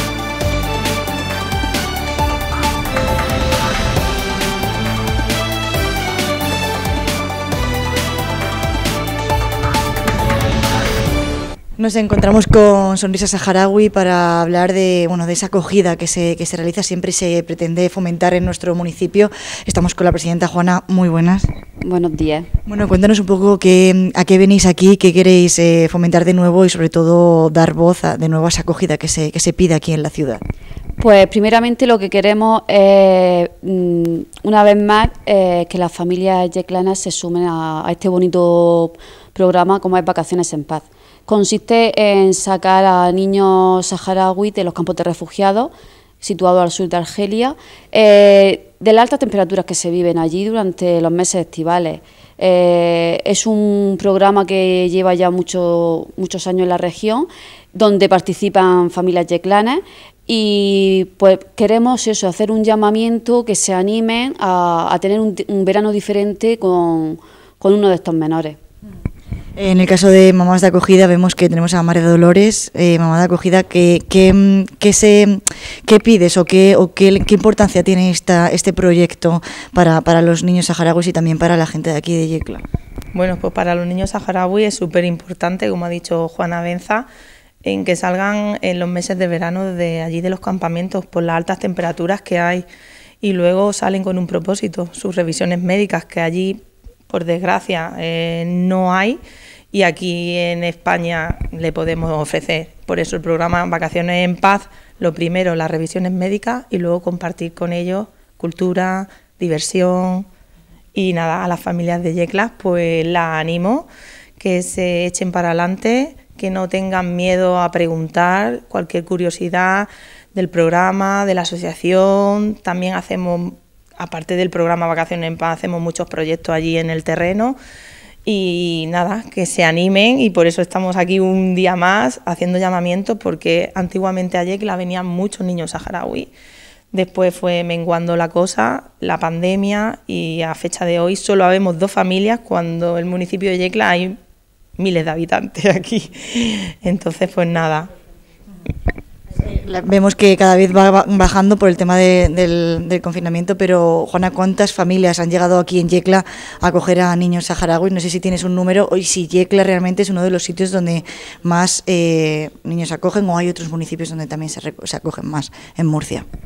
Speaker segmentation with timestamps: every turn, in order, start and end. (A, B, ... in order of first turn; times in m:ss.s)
0:11.8-0:21.5 A
0:21.8-0:22.5 B
0:22.7-0:30.4 A
0:31.0-1:08.6 B
1:09.6-1:22.6 A
1:23.1-1:27.1 C
1:27.6-1:32.6 C
1:33.2-1:39.2 C
1:39.7-1:50.3 C
1:51.0-1:53.9 C
1:54.4-2:07.6 C
2:08.3-2:16.3 C
2:16.9-2:24.2 C
2:24.8-2:27.9 C
2:29.4-2:46.2 A